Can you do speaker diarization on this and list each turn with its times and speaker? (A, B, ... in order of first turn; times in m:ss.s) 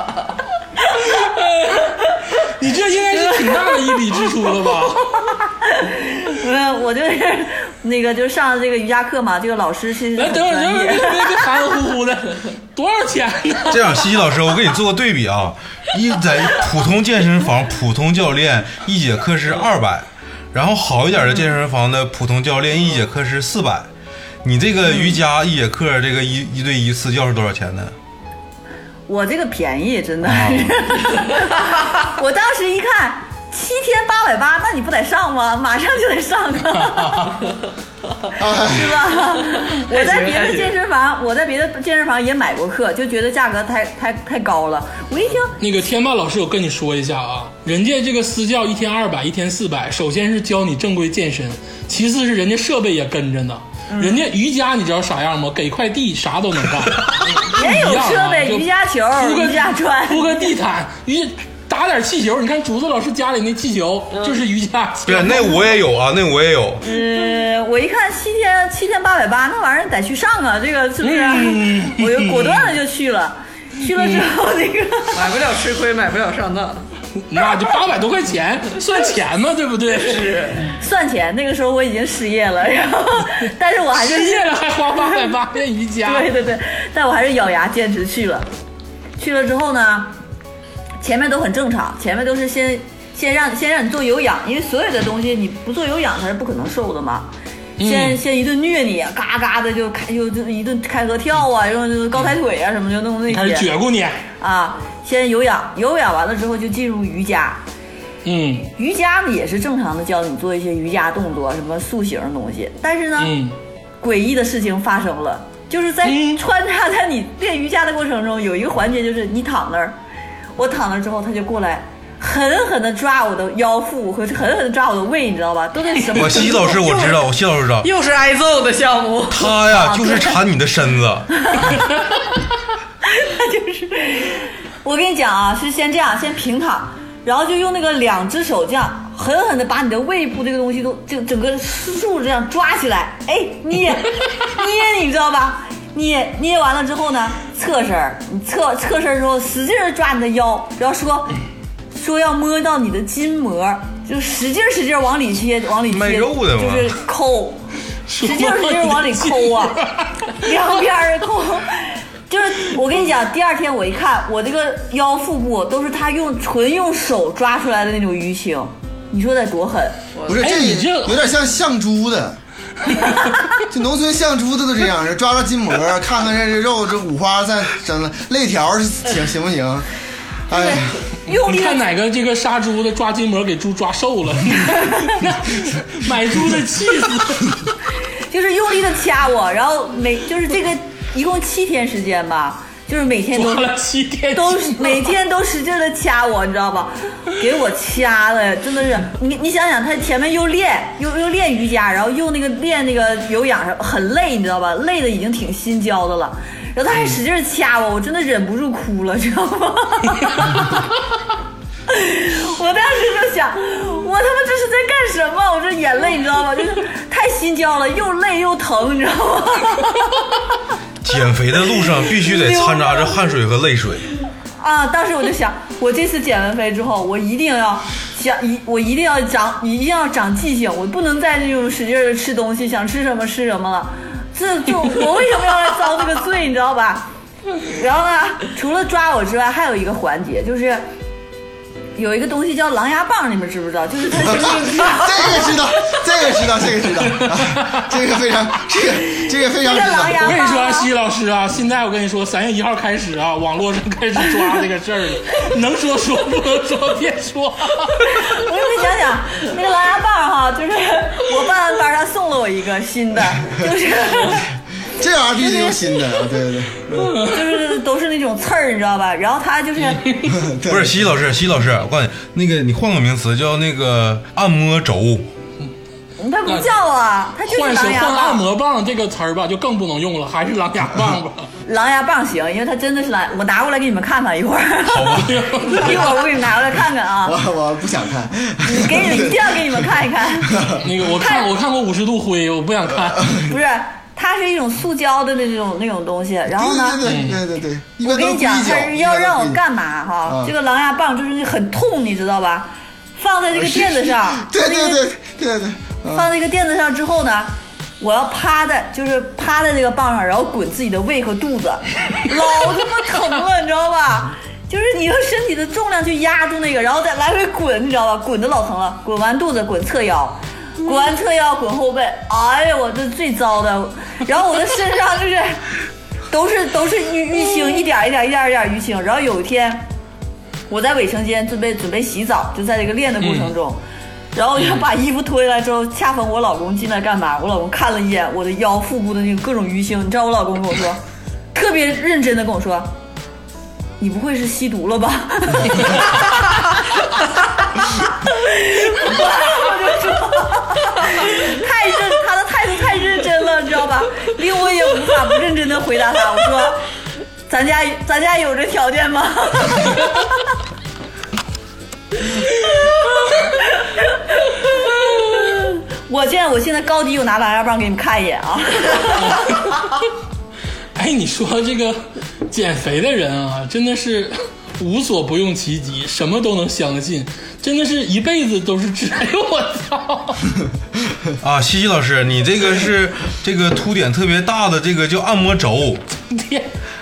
0:00.9-0:05.3 A
0:03.1-0:03.7 B
0:05.5-0:11.6 B
0:10.1-0:14.1 A
0:13.7-0:23.9 C
0:24.4-0:27.9 C
0:29.1-0:37.4 B
0:30.2-0:30.8 C
0:36.8-0:37.4 A
0:38.4-0:39.0 D
0:38.5-0:45.5 B
0:39.6-0:40.7 E
0:45.6-1:05.8 A
0:53.9-0:54.2 B
0:57.5-1:00.5 B
1:04.1-1:04.4 E
1:05.0-1:06.8 C
1:06.8-1:15.3 B
1:11.0-1:12.8 A
1:13.8-1:14.2 A
1:15.1-1:16.8 E
1:17.2-1:20.3 A
1:19.9-1:20.7 E
1:20.8-1:25.0 B
1:23.9-1:26.3 A
1:26.0-1:28.5 B
1:29.2-1:30.1 B
1:31.0-1:37.3 B
1:37.8-1:38.2 A
1:37.8-1:43.7 B
1:43.3-1:44.2 A
1:44.4-1:47.6 B
1:48.2-1:48.7 A
1:48.8-1:53.3 B
1:53.2-1:53.6 A
1:54.0-2:00.0 B
1:56.0-1:56.4 A
2:00.6-2:07.1 B
2:06.1-2:07.9 C
2:07.8-2:09.5 E
2:09.3-2:11.3 C
2:09.7-2:10.4 B
2:11.5-2:11.7 B
2:13.0-2:31.4 B
2:31.9-2:39.8 B
2:35.9-2:37.0 C
2:38.1-2:40.5 A
2:40.3-2:50.0 B
2:50.1-2:50.5 E
2:50.2-2:52.4 D
2:50.4-2:51.2 A
2:52.9-2:53.2 A
2:53.6-2:59.9 D
3:00.5-3:00.9 D
3:00.5-3:01.8 B
3:01.3-3:07.6 A
3:08.3-3:13.7 B
3:13.3-3:15.1 A
3:14.3-3:30.8 B
3:31.9-3:40.1 B
3:41.0-3:44.0 C
3:42.2-3:43.3 B
3:44.6-3:57.1 B
3:57.6-4:00.8 B
4:02.0-4:05.6 B
4:04.2-4:10.4 D
4:07.0-4:07.8 A
4:09.2-4:10.9 B
4:10.2-4:18.2 A
4:18.0-4:24.5 B
4:25.0-4:27.1 D
4:25.4-4:25.8 B
4:26.9-4:27.7 A
4:27.2-4:30.1 B
4:29.9-4:30.4 A
4:30.3-4:31.1 D
4:30.7-4:35.3 C
4:36.2-4:38.4 B
4:36.5-4:36.7 A
4:37.4-4:41.5 A
4:41.7-4:47.4 B
4:44.9-4:45.3 C
4:45.2-4:46.2 A
4:47.2-4:49.9 D
4:48.6-4:51.4 B
4:50.5-4:50.8 D
4:50.8-4:53.3 A
4:53.2-4:53.4 D
4:53.4-4:57.0 B
4:56.5-4:59.6 D
4:57.0-4:57.4 A
4:58.0-5:05.0 B
5:00.2-5:00.5 D
5:03.5-5:06.3 D
5:06.1-5:25.6 B
5:26.3-5:29.9 B
5:30.7-5:33.8 B
5:33.2-5:33.5 A
5:34.3-5:41.0 B
5:41.5-5:42.9 B
5:44.0-5:56.8 B
5:57.5-6:00.3 B
6:03.3-6:09.5 B
6:09.2-6:09.8 A
6:10.9-6:20.5 A
6:21.4-6:26.0 C
6:26.3-6:26.7 A